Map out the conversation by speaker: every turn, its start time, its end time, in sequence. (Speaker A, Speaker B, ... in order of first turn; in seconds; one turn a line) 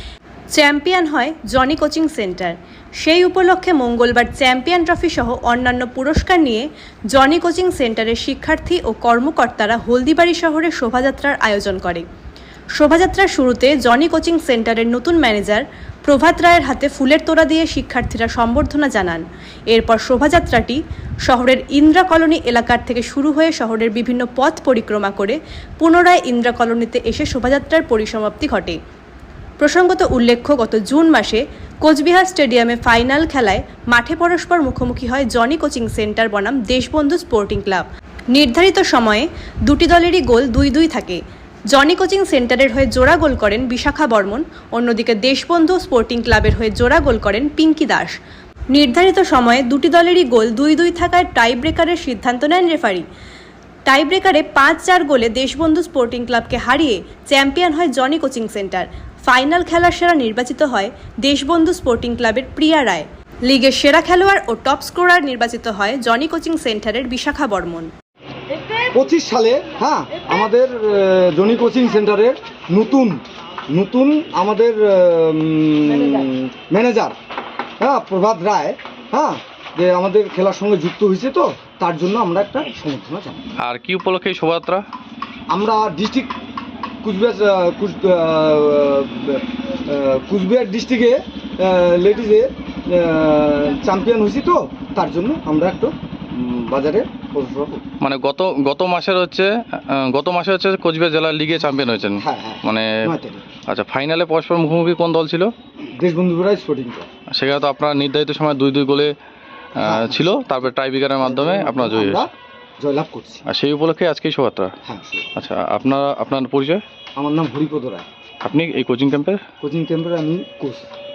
Speaker A: 0.5-12.0
Speaker A: 12.8-28.8
Speaker A: 29.6-41.2
Speaker A: 41.7-48.1
Speaker A: 48.7-53.0
Speaker A: 53.9-67.9
Speaker B: 68.9-77.1
Speaker B: 77.8-83.4
Speaker C: 83.6-84.8
Speaker B: 85.5-86.3
Speaker B: 87.0-97.8
Speaker C: 98.0-103.1
Speaker B: 102.2-103.4
Speaker C: 103.7-105.5
Speaker B: 106.0-107.1
Speaker C: 107.3-109.1
Speaker B: 109.8-110.5
Speaker C: 109.8-112.3
Speaker B: 111.2-113.4
Speaker C: 113.5-114.7
Speaker B: 114.8-115.3
Speaker C: 115.3-116.8
Speaker B: 117.2-118.1
Speaker C: 118.4-119.4
Speaker B: 119.6-120.9